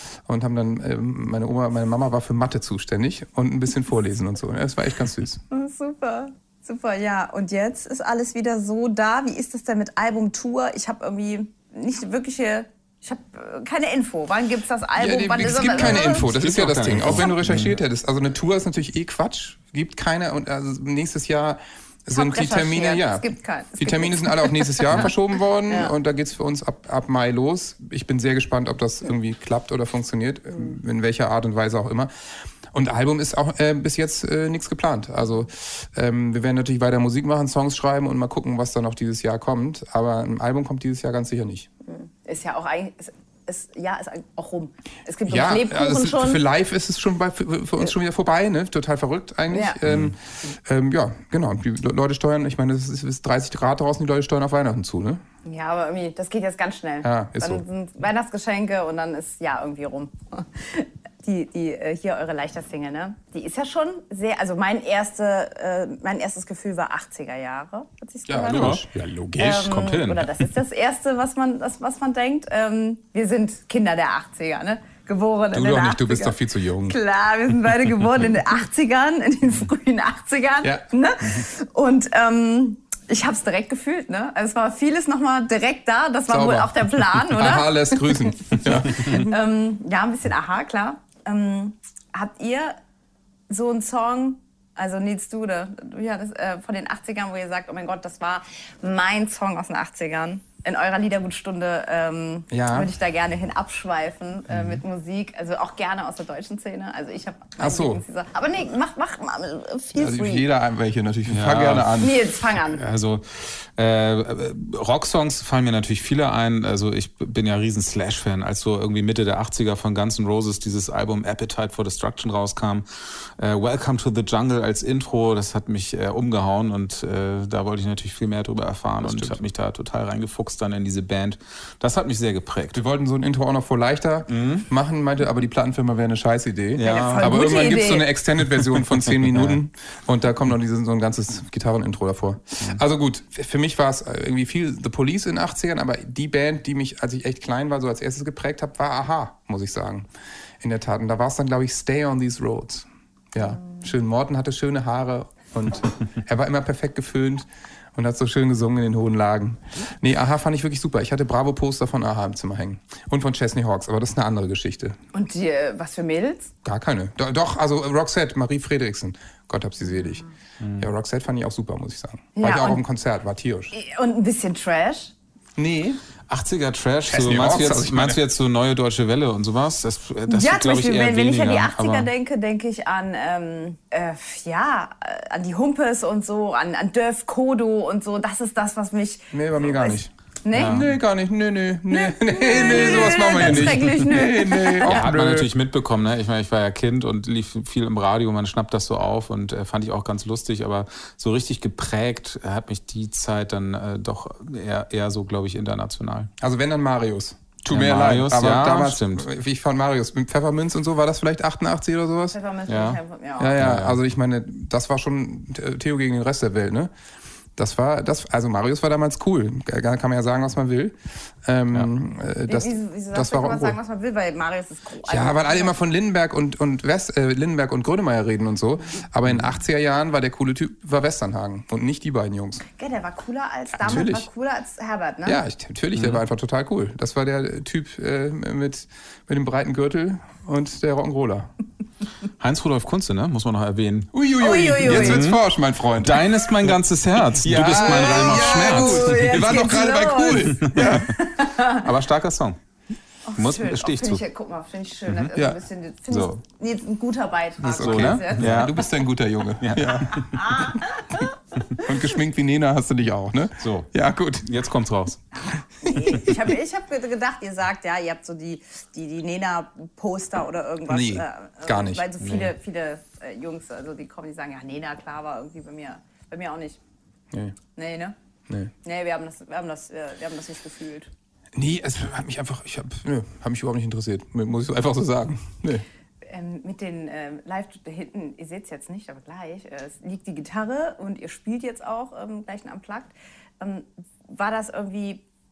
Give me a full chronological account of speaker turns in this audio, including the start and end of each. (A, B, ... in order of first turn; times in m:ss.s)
0:00.2-0:05.4 A
0:05.5-0:16.3 B
0:15.0-0:23.2 A
0:15.6-0:17.7 C
0:17.0-0:17.3 B
0:22.1-0:25.1 B
0:23.8-0:41.7 A
0:41.9-0:46.4 B
0:45.3-0:55.2 A
0:49.5-0:49.8 B
0:49.9-0:50.1 C
0:55.4-1:08.8 B
0:57.0-0:57.6 A
1:08.3-1:09.6 A
1:08.5-1:10.4 C
1:09.4-1:32.8 B
1:15.5-1:17.0 A
1:26.3-1:29.3 A
1:33.5-1:50.4 B
1:42.5-1:42.9 A
1:47.6-1:48.0 A
1:50.0-1:52.1 A
1:51.3-1:52.0 C
1:52.0-1:52.8 B
1:52.6-2:02.8 C
2:03.4-2:12.8 C
2:09.0-2:09.4 A
2:12.7-2:30.1 A
2:14.3-2:14.6 C
2:16.8-2:17.5 C
2:16.8-2:18.1 B
2:19.3-2:19.6 C
2:30.6-2:45.0 A
2:33.4-2:33.8 B
2:45.1-2:46.5 B
2:46.6-2:50.2 A
2:49.9-2:50.2 B
2:50.6-2:50.9 C
2:50.8-2:53.7 A
2:52.4-2:52.8 B
2:53.7-2:55.1 B
2:55.6-2:56.0 A
2:56.3-3:02.1 C
2:57.1-2:58.2 A
3:00.3-3:10.8 B
3:09.3-3:15.5 A
3:10.5-3:10.9 C
3:11.9-3:15.0 B
3:12.6-3:14.0 C
3:14.8-3:26.3 C
3:26.4-3:32.4 A
3:27.7-3:29.3 C
3:32.3-3:33.5 B
3:32.7-3:33.0 C
3:33.4-3:36.9 A
3:33.6-3:34.0 C
3:37.6-3:43.8 A
3:42.5-3:45.8 B
3:45.0-3:52.6 A
3:52.7-3:55.4 B
3:53.7-3:54.2 A
3:55.2-4:01.5 A
3:56.0-3:56.2 C
4:02.4-4:04.1 C
4:04.1-4:06.8 A
4:04.4-4:05.3 B
4:04.8-4:05.4 C
4:06.0-4:09.5 C
4:07.4-4:11.1 A
4:07.7-4:11.8 B
4:10.7-4:11.0 C
4:11.7-4:12.6 C
4:13.2-4:18.7 B
4:13.4-4:14.2 C
4:15.3-4:15.6 A
4:17.6-4:20.8 A
4:17.8-4:18.8 C
4:19.6-4:20.4 C
4:20.1-4:21.8 B
4:21.8-4:24.6 A
4:23.6-4:25.2 C
4:25.4-4:36.8 B
4:30.9-4:32.0 A
4:32.2-4:32.5 C
4:37.7-4:38.1 B
4:38.8-4:41.1 B
4:41.5-4:45.8 A
4:46.3-4:55.2 B